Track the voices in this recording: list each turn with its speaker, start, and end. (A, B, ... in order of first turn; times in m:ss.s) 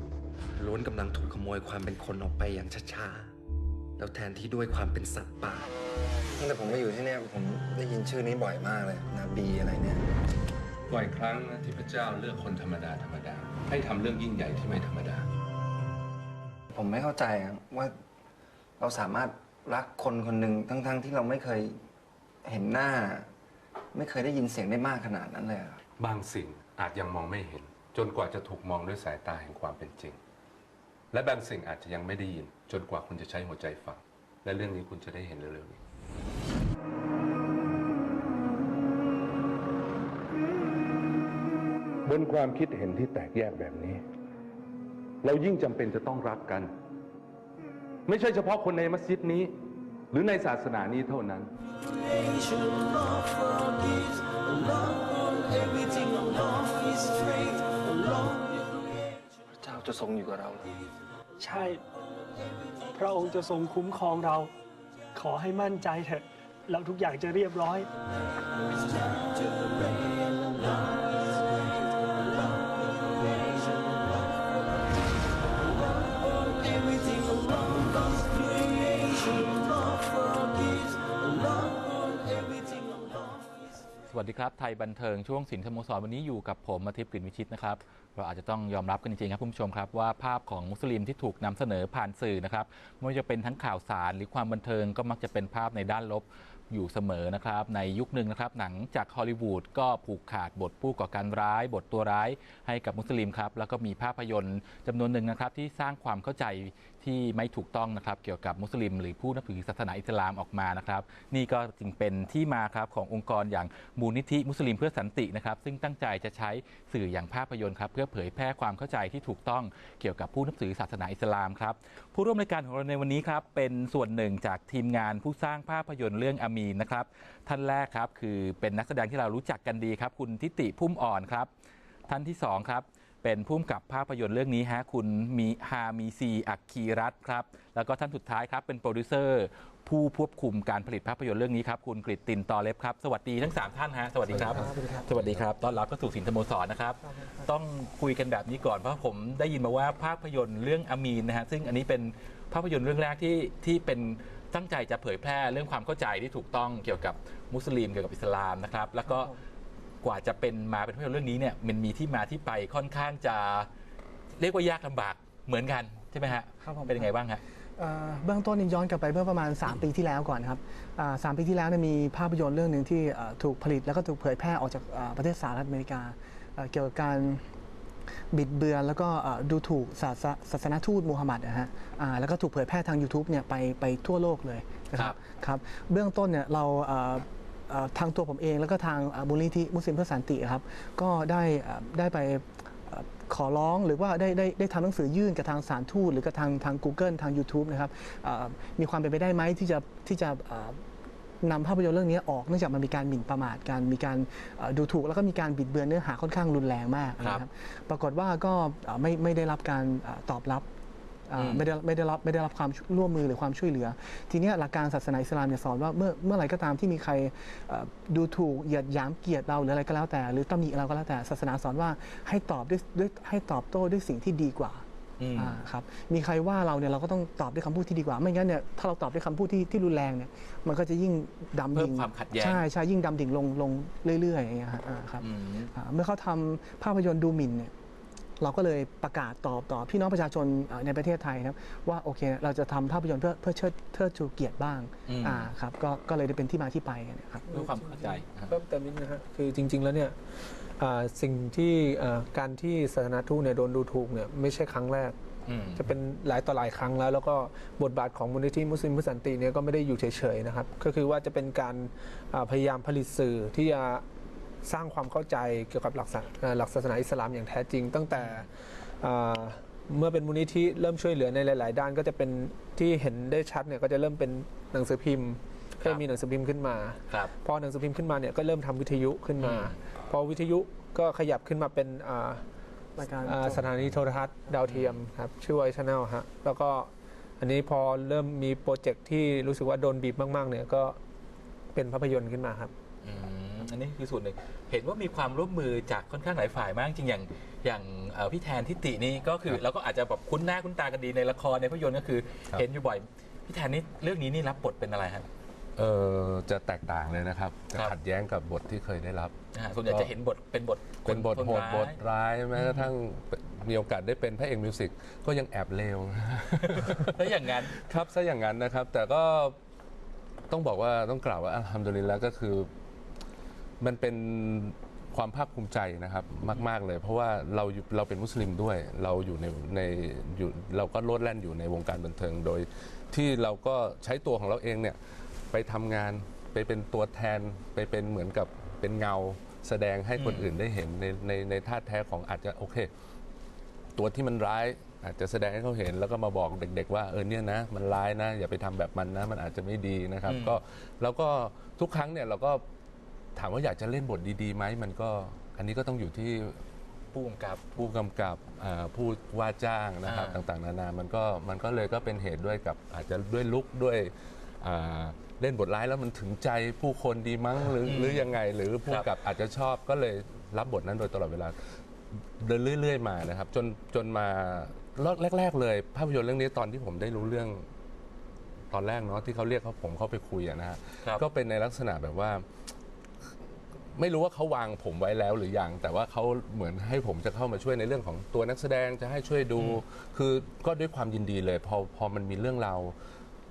0:00.6-0:03.3 A
0:04.0-0:05.7 A
0:06.4-0:10.0 B
0:10.9-0:15.3 C
0:16.7-0:18.0 B
0:18.8-0:21.8 B
0:22.4-0:23.3 B
0:23.9-0:25.8 B
0:26.0-0:30.2 C
0:31.1-0:35.8 C
0:42.0-0:44.0 C
0:45.2-0:46.7 C
0:48.1-0:49.5 C
0:50.1-0:51.5 C
0:52.0-0:58.8 D
0:59.6-1:00.8 B
1:01.4-1:01.8 E
1:02.9-1:04.5 E
1:05.1-1:07.9 E
1:16.3-1:23.3 D
1:24.1-2:11.5 F
2:12.1-2:39.3 F
2:24.3-2:25.4 C
2:24.4-2:25.1 G
2:27.0-2:27.5 G
2:39.1-2:39.4 G
2:40.0-2:43.7 F
2:44.4-2:47.4 F
2:46.6-2:47.1 G
2:47.8-2:57.4 G
2:58.3-3:20.8 G
3:21.4-3:30.7 G
3:27.2-3:27.4 F
3:31.3-3:57.7 G
3:31.4-3:31.7 F
3:45.2-3:45.6 F
3:51.7-3:52.6 F
3:55.2-3:55.7 F
3:58.4-4:07.5 G
4:05.1-4:05.5 F
4:07.5-4:15.2 H
4:07.5-4:08.5 F
4:15.5-4:15.8 F
4:15.8-4:24.0 H
4:24.6-4:42.4 H
4:28.1-4:28.4 F
4:39.4-4:39.7 F
4:43.0-4:43.6 G
4:43.2-4:51.0 H
4:44.7-4:45.0 F
4:51.7-4:52.7 H
4:53.0-5:05.3 F
5:05.8-5:09.3 C
5:09.5-5:11.9 F
5:11.0-5:19.6 C
5:12.6-5:12.9 F
5:16.6-5:17.8 F
5:20.5-5:22.7 C
5:23.8-5:35.0 C
5:35.5-5:42.9 C
5:40.2-5:40.5 F
5:43.9-5:52.6 C
5:50.2-5:50.6 F
5:53.4-5:56.6 C
5:57.1-5:57.8 F
5:57.8-6:17.7 C
6:00.0-6:00.4 F
6:07.8-6:08.3 F
6:18.7-6:22.5 C
6:23.2-6:32.9 C